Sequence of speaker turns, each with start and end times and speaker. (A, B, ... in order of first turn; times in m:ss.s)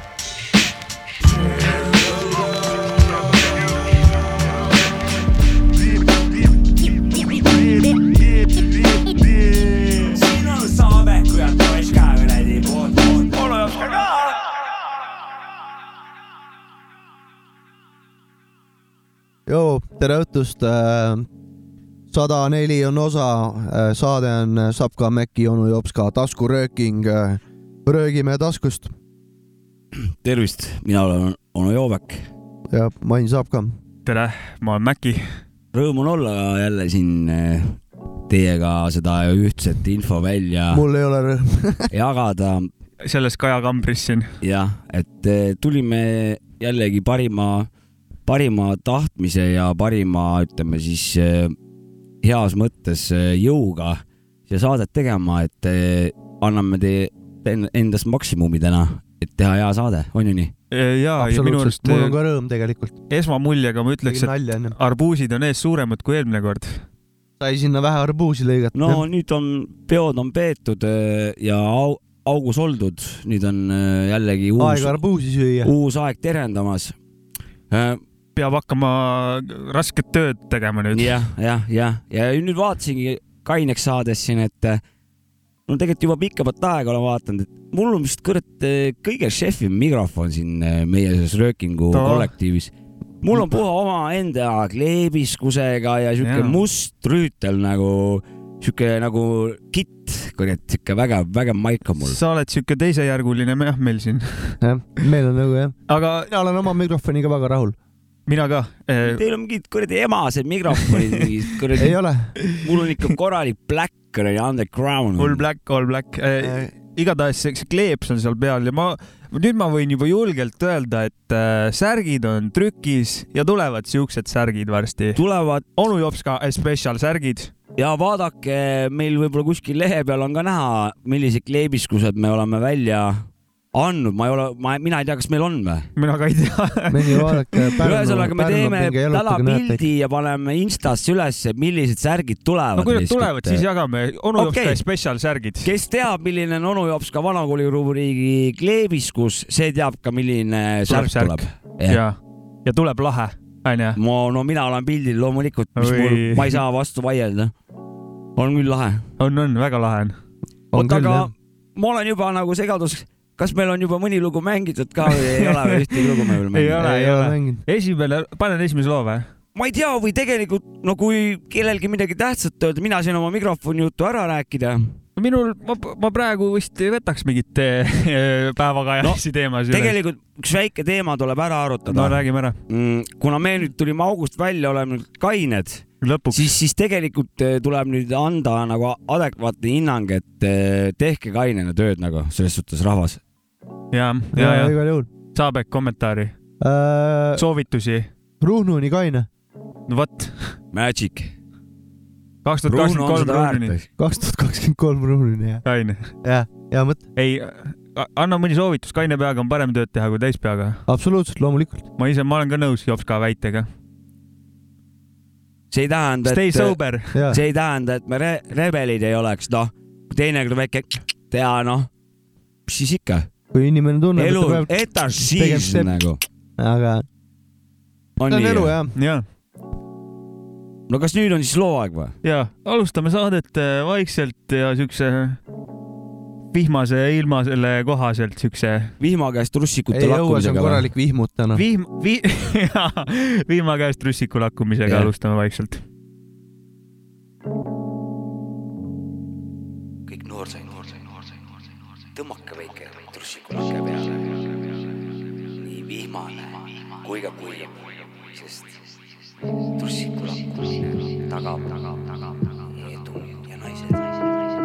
0:01.9-0:02.4 A
0:10.0-0:14.6 A
0:19.5-0:21.3 B
0:22.1-0:28.9 B
0:30.0-0:32.3 A
0:32.7-0:33.8 B
0:34.1-0:35.4 C
0:35.7-0:37.8 A
0:38.3-0:40.8 A
0:40.7-0:41.9 B
0:41.9-0:42.7 A
0:43.0-0:44.3 C
0:44.4-0:47.7 A
0:48.3-0:51.6 A
0:52.2-1:00.5 A
1:00.7-1:02.2 C
1:01.2-1:03.0 B
1:03.1-1:06.9 C
1:04.1-1:04.8 B
1:07.4-1:09.1 B
1:08.7-1:15.0 A
1:14.6-1:15.7 B
1:15.6-1:17.0 A
1:17.7-1:18.0 A
1:18.4-1:21.2 C
1:20.9-1:24.8 A
1:25.7-1:42.2 A
1:31.9-1:32.3 C
1:36.2-1:36.6 C
1:42.0-1:44.6 C
1:44.6-1:47.8 B
1:45.9-1:46.3 C
1:48.3-1:49.2 C
1:49.1-1:52.0 A
1:51.8-1:52.4 B
1:52.5-1:55.4 A
1:55.2-2:05.2 C
1:56.4-1:56.7 B
2:05.2-2:05.6 A
2:05.8-2:07.5 C
2:07.8-2:15.9 A
2:16.0-2:17.7 C
2:16.9-2:19.8 B
2:17.8-2:23.6 A
2:22.8-2:25.7 C
2:24.4-2:24.8 A
2:25.6-2:32.0 A
2:30.9-2:34.0 C
2:34.0-2:37.5 A
2:35.8-2:36.6 C
2:38.4-2:39.1 A
2:39.2-2:40.2 C
2:40.7-2:41.3 B
2:40.7-2:46.8 A
2:45.2-2:49.3 C
2:46.8-2:47.6 B
2:49.6-2:55.0 A
2:55.2-3:00.0 C
2:59.0-3:13.2 A
3:01.9-3:02.6 C
3:06.0-3:06.5 C
3:13.9-3:14.8 C
3:14.3-3:15.1 B
3:15.3-3:16.4 C
3:16.6-3:17.4 B
3:17.4-3:18.1 C
3:18.4-3:19.3 B
3:19.9-3:20.6 C
3:20.7-3:21.3 A
3:22.4-3:23.8 C
3:22.7-3:23.9 A
3:24.0-3:25.6 B
3:25.6-3:26.1 C
3:26.2-3:27.0 B
3:27.2-3:30.8 C
3:30.9-3:31.8 B
3:32.0-3:33.7 C
3:35.7-3:41.9 A
3:36.2-3:37.3 C
3:37.1-3:37.4 B
3:42.7-3:43.3 A
3:43.5-3:46.0 B
3:44.2-3:46.2 A
3:46.6-3:47.1 B
3:48.2-3:48.8 A
3:48.3-3:48.9 B
3:49.0-3:49.3 C
3:50.9-3:52.2 A
3:52.2-3:55.4 C
3:56.5-3:58.9 C
3:59.0-4:00.9 A
3:59.9-4:01.6 B
4:01.6-4:05.8 C
4:04.9-4:05.1 A
4:10.1-4:11.3 A
4:12.1-4:14.4 A
4:15.6-4:18.8 A
4:19.8-4:24.0 A